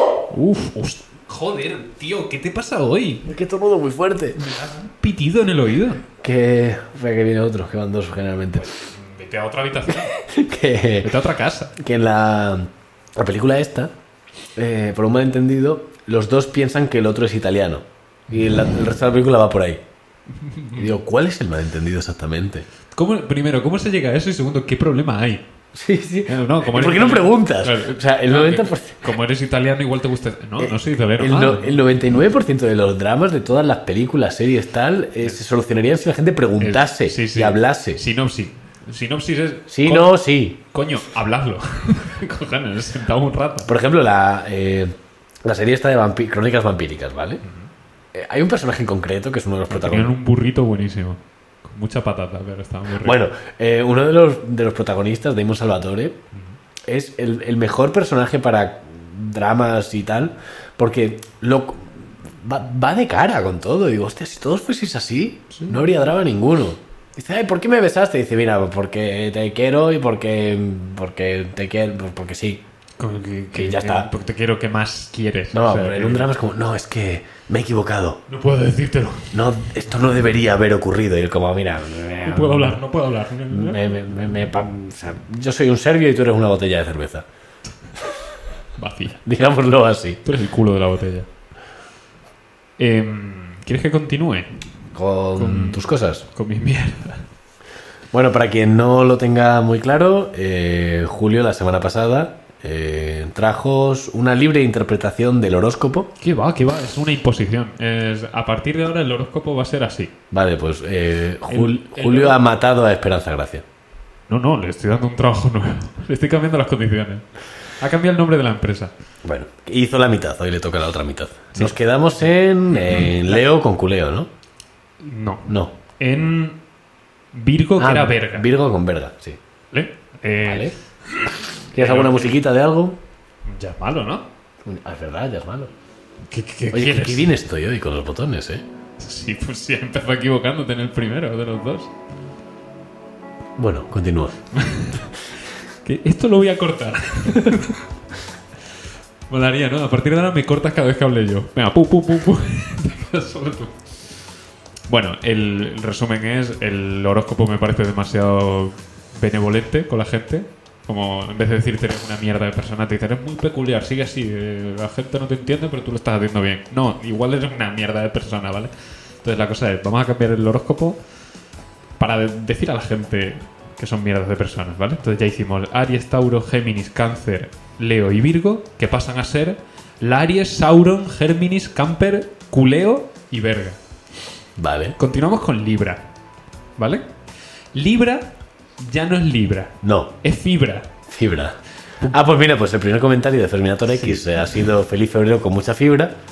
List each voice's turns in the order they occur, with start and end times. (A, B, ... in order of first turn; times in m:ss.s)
0:00.3-0:03.3 A
0:03.2-0:04.4 B
0:04.4-0:06.0 A
0:06.2-0:08.7 B
0:08.6-0:10.2 A
0:09.9-0:11.1 B
0:11.0-0:11.8 A
0:11.8-0:13.9 B
0:14.6-0:19.8 B
0:20.4-0:20.9 A
0:20.8-0:22.7 B
0:22.9-0:25.4 A
0:25.8-0:29.0 B
0:26.3-0:31.8 A
0:30.6-0:38.0 B
0:36.6-0:40.2 A
0:39.7-0:40.6 B
0:40.7-0:43.7 A
0:43.7-0:44.9 B
0:45.4-0:47.4 B
0:47.4-0:47.7 A
0:48.1-0:50.1 B
0:49.7-0:53.2 A
0:53.0-0:56.2 B
0:56.9-1:12.6 B
1:05.5-1:05.9 A
1:13.0-1:16.3 A
1:13.5-1:14.1 B
1:15.5-1:18.2 B
1:18.3-1:19.4 A
1:19.3-1:22.8 B
1:22.2-1:24.0 A
1:23.5-1:27.3 B
1:28.8-1:29.2 A
1:29.2-1:30.2 B
1:30.2-1:31.3 A
1:32.8-1:34.6 A
1:35.0-1:36.2 B
1:35.4-1:37.3 A
1:38.1-1:46.1 B
1:46.2-1:50.1 A
1:50.3-1:53.6 B
1:51.5-1:52.4 A
1:54.3-1:57.2 A
1:57.8-1:58.9 A
1:59.2-2:04.3 B
2:02.9-2:03.3 A
2:05.0-2:06.6 A
2:07.3-2:08.5 A
2:07.8-2:09.4 B
2:09.7-2:12.3 A
2:10.5-2:10.8 B
2:11.7-2:13.0 B
2:13.5-2:14.3 A
2:14.6-2:15.7 B
2:16.3-2:17.3 A
2:16.7-2:18.6 B
2:19.0-2:21.9 A
2:23.6-2:24.4 B
2:24.5-2:25.1 A
2:25.8-2:27.8 A
2:29.3-2:33.8 A
2:34.9-2:51.0 A
2:52.0-3:03.8 A
3:04.6-3:05.0 B
3:05.0-3:06.1 A
3:06.8-3:07.1 A
3:07.7-3:10.9 A
3:09.8-3:10.1 B
3:11.1-3:16.1 B
3:13.9-3:14.5 A